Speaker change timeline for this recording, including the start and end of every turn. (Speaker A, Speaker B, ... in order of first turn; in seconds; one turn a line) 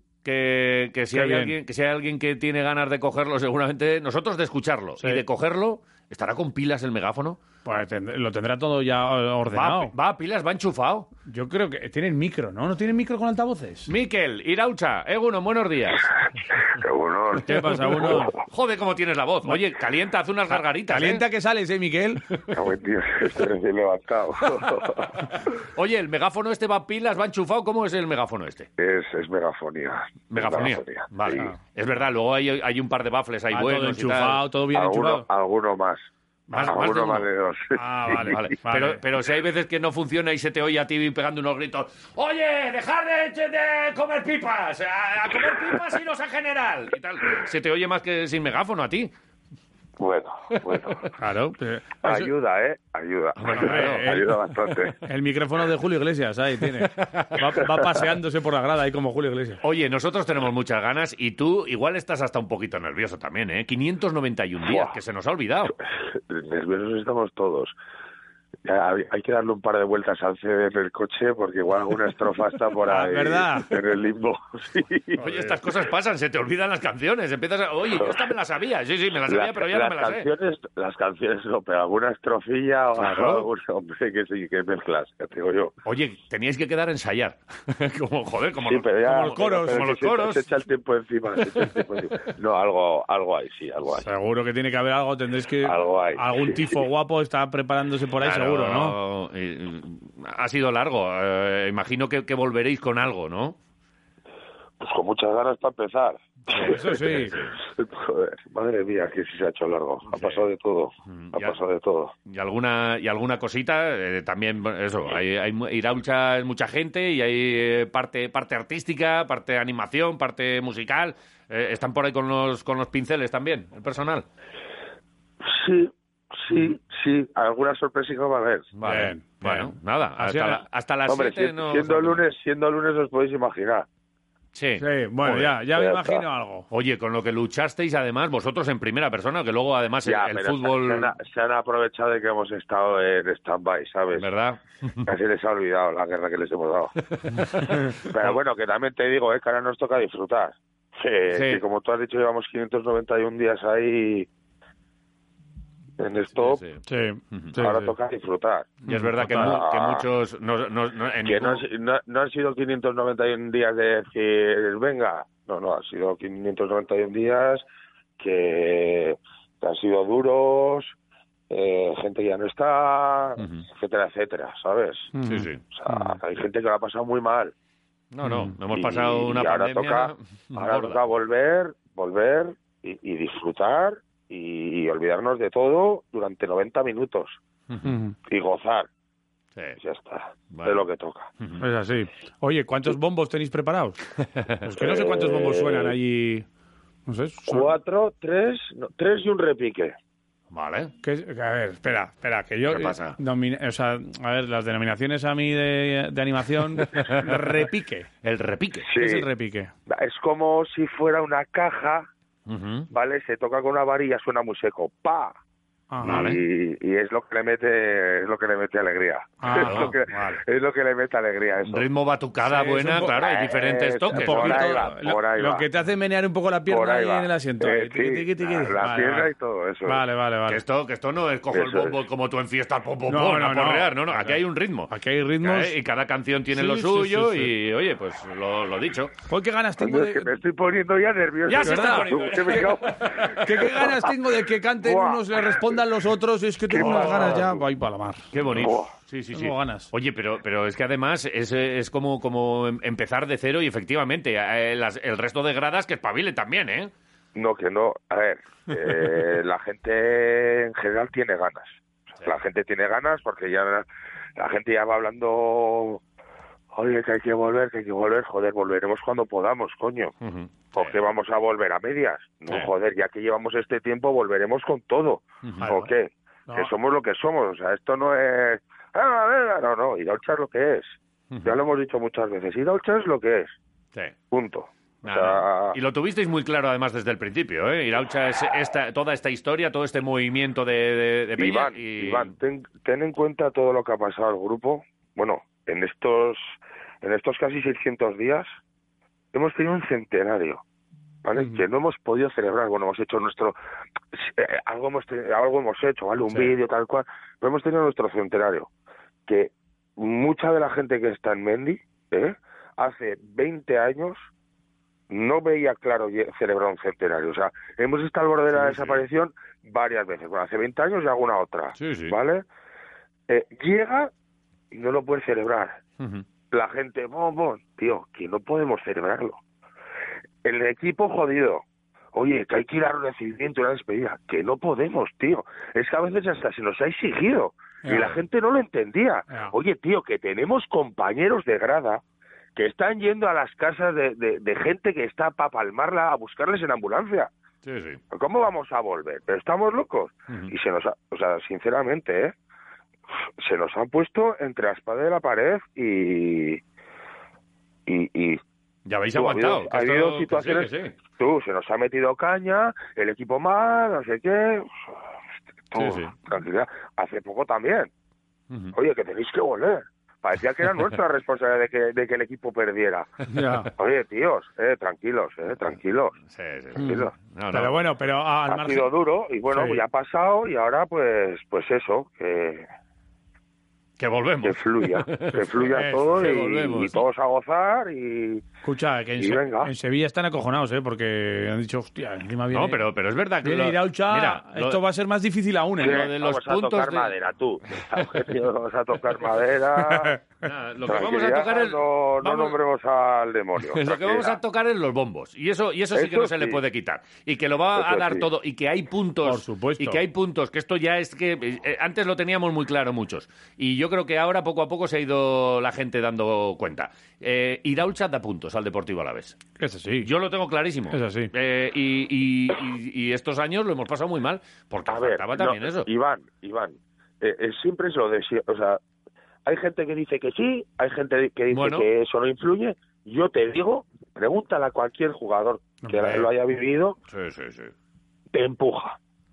Speaker A: 0.2-7.4
Speaker B: 1.1-1.6
Speaker B: 5.0-5.2
Speaker B: 7.6-9.9
Speaker A: 9.5-11.1
Speaker B: 11.3-13.9
Speaker A: 13.9-16.1
Speaker C: 16.6-18.3
Speaker B: 17.4-18.3
Speaker A: 17.7-21.2
Speaker B: 20.5-22.2
Speaker C: 22.5-25.3
Speaker A: 25.3-28.7
Speaker C: 28.8-31.5
Speaker A: 30.3-34.4
Speaker B: 33.5-35.2
Speaker C: 34.7-36.0
Speaker B: 36.5-36.8
Speaker A: 36.5-37.3
Speaker C: 36.5-38.4
Speaker B: 37.7-39.0
Speaker A: 38.1-49.1
Speaker C: 50.0-51.1
Speaker B: 51.1-52.3
Speaker C: 52.0-55.0
Speaker A: 53.4-54.1
Speaker B: 53.5-54.3
Speaker B: 55.0-59.6
Speaker A: 56.8-57.4
Speaker A: 59.6-65.7
Speaker C: 64.6-65.0
Speaker C: 66.0-67.7
Speaker C: 68.6-75.3
Speaker B: 72.9-73.7
Speaker A: 75.2-80.3
Speaker C: 77.9-78.3
Speaker C: 79.2-85.7
Speaker A: 83.0-83.5
Speaker A: 85.8-90.4
Speaker C: 88.6-94.1
Speaker B: 89.1-89.9
Speaker B: 93.9-99.0
Speaker C: 95.6-96.8
Speaker A: 98.2-103.6
Speaker C: 104.8-112.1
Speaker A: 106.5-107.5
Speaker B: 106.5-107.3
Speaker A: 110.1-110.5
Speaker A: 111.1-111.6
Speaker A: 112.2-124.2
Speaker C: 125.4-128.7
Speaker A: 128.7-132.2
Speaker B: 128.8-130.6
Speaker C: 131.1-133.8
Speaker A: 134.5-135.6
Speaker B: 134.8-136.7
Speaker C: 135.7-136.3
Speaker A: 136.7-141.1
Speaker C: 140.0-144.2
Speaker A: 144.1-145.1
Speaker C: 145.0-146.9
Speaker A: 147.1-148.3
Speaker C: 147.9-154.3
Speaker A: 151.3-151.6
Speaker C: 156.0-156.6
Speaker A: 156.3-156.8
Speaker B: 156.8-157.9
Speaker C: 157.6-160.1
Speaker B: 158.8-159.6
Speaker A: 158.9-161.6
Speaker C: 161.2-167.6
Speaker C: 168.2-170.9
Speaker C: 171.5-175.1
Speaker A: 173.4-173.6
Speaker B: 175.1-176.2
Speaker A: 175.2-175.6
Speaker C: 175.7-177.5
Speaker A: 178.1-181.0
Speaker B: 178.2-178.6
Speaker C: 178.7-187.4
Speaker B: 187.8-188.2
Speaker C: 188.3-188.9
Speaker C: 189.8-191.3
Speaker A: 190.5-190.8
Speaker B: 191.6-194.0
Speaker B: 194.6-196.4
Speaker C: 194.8-196.0
Speaker B: 197.1-197.7
Speaker C: 197.5-199.9
Speaker A: 200.5-200.9
Speaker B: 201.0-208.1
Speaker A: 202.7-203.2
Speaker A: 206.8-207.1
Speaker A: 208.2-208.9
Speaker C: 208.8-209.3
Speaker B: 209.0-209.7
Speaker C: 209.9-212.1
Speaker A: 212.5-212.9
Speaker C: 212.9-215.4
Speaker B: 215.9-216.3
Speaker C: 216.0-221.8
Speaker A: 216.0-216.4
Speaker B: 219.4-220.4
Speaker A: 219.5-219.9
Speaker A: 221.6-224.8
Speaker B: 222.4-223.1
Speaker C: 223.0-225.7
Speaker B: 224.1-229.3
Speaker C: 226.7-230.0
Speaker B: 229.9-230.6
Speaker A: 230.5-239.1
Speaker C: 231.5-232.0
Speaker B: 233.1-235.7
Speaker B: 236.5-237.5
Speaker B: 239.2-240.3
Speaker C: 239.8-244.1
Speaker B: 241.5-248.3
Speaker A: 241.5-243.3
Speaker C: 244.8-245.8
Speaker C: 246.7-247.7
Speaker A: 246.8-247.3
Speaker A: 248.3-256.9
Speaker C: 248.5-248.9
Speaker B: 249.3-249.9
Speaker C: 257.3-266.0
Speaker C: 266.7-270.1
Speaker A: 270.2-271.0
Speaker C: 270.7-283.5
Speaker B: 275.6-275.9
Speaker B: 276.5-276.7
Speaker A: 281.3-281.6
Speaker C: 284.3-285.8
Speaker A: 285.0-292.3
Speaker C: 291.4-298.5
Speaker C: 299.3-300.6
Speaker C: 301.2-303.6
Speaker B: 301.4-301.6
Speaker C: 304.1-308.7
Speaker C: 309.3-314.2
Speaker C: 315.1-322.4
Speaker A: 318.5-319.0
Speaker A: 321.8-322.1
Speaker C: 323.3-324.1
Speaker C: 324.7-325.8
Speaker A: 326.0-326.2
Speaker C: 326.5-329.4
Speaker C: 330.4-331.6
Speaker C: 332.1-342.0
Speaker A: 337.9-338.2
Speaker C: 342.6-347.3
Speaker A: 347.6-348.0
Speaker C: 348.1-352.3
Speaker C: 353.4-356.6
Speaker C: 357.9-358.4
Speaker A: 358.9-360.9
Speaker C: 359.1-364.7
Speaker C: 365.7-367.9
Speaker A: 365.8-366.1
Speaker C: 368.7-373.1
Speaker B: 373.3-373.7
Speaker C: 373.7-376.2
Speaker A: 376.3-377.8
Speaker C: 376.8-377.1
Speaker B: 376.8-378.9
Speaker C: 378.5-382.6
Speaker B: 379.5-379.8
Speaker A: 384.0-385.4
Speaker C: 384.4-388.4
Speaker B: 385.7-386.2
Speaker A: 386.1-387.0
Speaker B: 388.6-392.8
Speaker C: 389.2-389.7
Speaker A: 392.5-394.8
Speaker B: 393.4-396.0
Speaker C: 395.8-400.1
Speaker A: 395.8-397.1
Speaker B: 399.8-400.2
Speaker A: 400.4-402.6
Speaker C: 400.8-404.4
Speaker A: 403.6-419.4
Speaker C: 405.9-406.6
Speaker C: 407.7-408.3
Speaker B: 409.2-410.0
Speaker B: 419.6-420.1
Speaker A: 420.0-425.9
Speaker B: 420.9-421.3
Speaker C: 424.9-428.8
Speaker C: 429.4-437.0
Speaker A: 431.5-431.9
Speaker B: 435.8-436.3
Speaker A: 437.1-437.7
Speaker C: 438.3-439.0